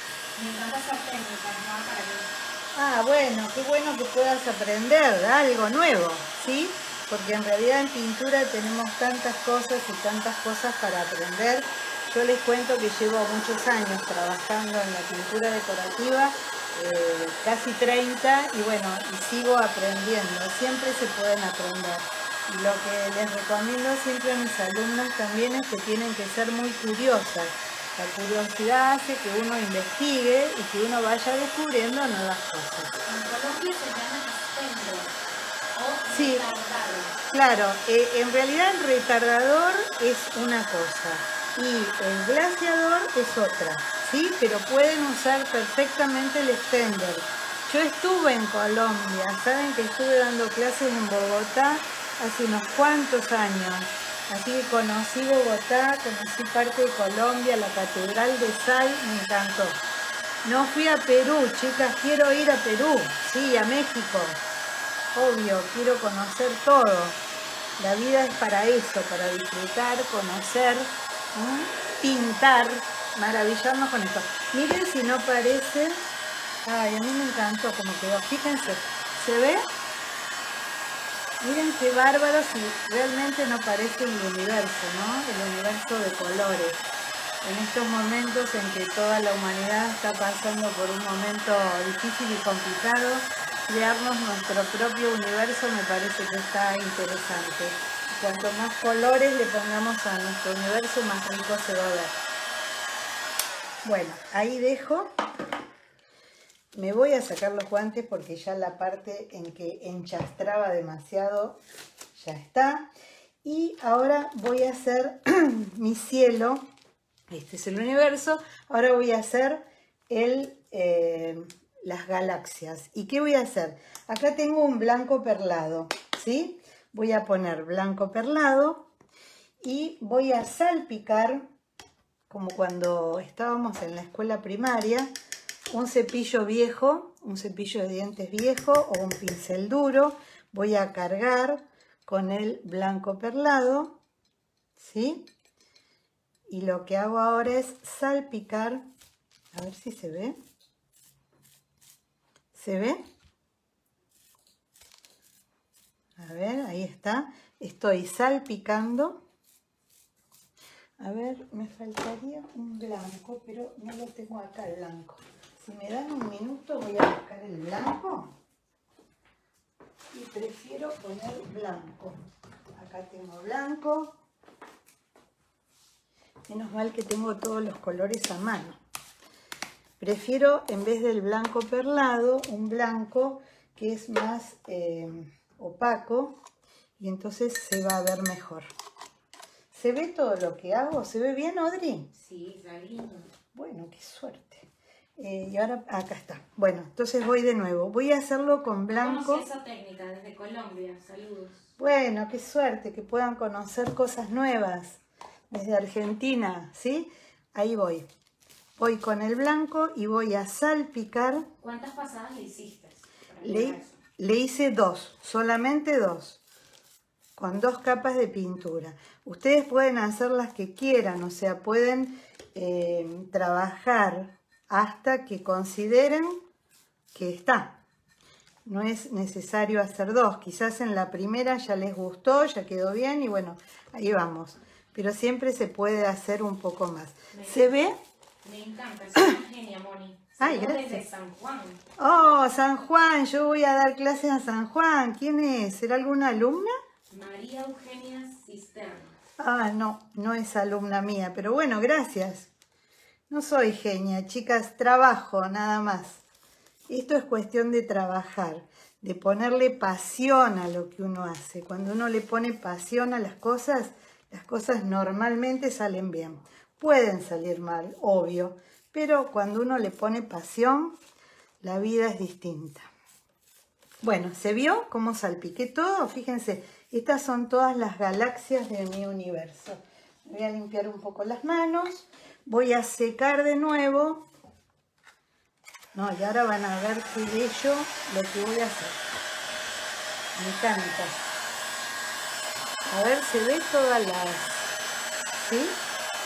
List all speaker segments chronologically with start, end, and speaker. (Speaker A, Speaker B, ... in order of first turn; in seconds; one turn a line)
Speaker A: 0.3-2.3
Speaker B: 2.7-32.9
Speaker A: 33.0-35.2
Speaker A: 35.7-37.1
Speaker B: 36.1-36.4
Speaker B: 37.3-59.8
Speaker B: 60.4-64.4
Speaker B: 65.1-67.2
Speaker B: 67.8-76.0
Speaker B: 76.6-79.7
Speaker B: 81.4-86.8
Speaker B: 87.4-102.2
Speaker B: 103.8-105.1
Speaker B: 106.7-111.6
Speaker B: 112.2-112.9
Speaker B: 113.4-116.6
Speaker B: 117.3-128.9
Speaker B: 129.6-131.4
Speaker B: 132.3-135.1
Speaker B: 135.7-144.0
Speaker B: 144.8-145.3
Speaker B: 146.5-148.8
Speaker B: 149.5-150.3
Speaker B: 152.5-153.0
Speaker B: 156.2-159.2
Speaker B: 161.0-168.3
Speaker B: 170.1-172.2
Speaker B: 172.8-174.2
Speaker B: 176.5-178.8
Speaker B: 180.0-186.4
Speaker B: 187.0-188.7
Speaker B: 189.7-192.1
Speaker A: 192.1-193.3
Speaker B: 193.5-199.4
Speaker A: 198.9-201.7
Speaker B: 201.8-205.0
Speaker B: 205.5-208.1
Speaker B: 208.8-211.5
Speaker A: 211.6-213.9
Speaker B: 213.4-216.4
Speaker B: 217.4-226.4
Speaker B: 227.1-227.8
Speaker B: 228.7-237.9
Speaker A: 237.3-237.7
Speaker A: 238.4-241.8
Speaker B: 240.4-241.0
Speaker B: 242.0-246.7
Speaker A: 247.1-249.2
Speaker B: 249.4-252.5
Speaker B: 253.3-256.2
Speaker B: 256.9-271.0
Speaker B: 271.6-272.9
Speaker B: 274.0-284.2
Speaker B: 285.9-289.0
Speaker B: 290.4-291.3
Speaker B: 292.9-294.7
Speaker B: 295.4-295.8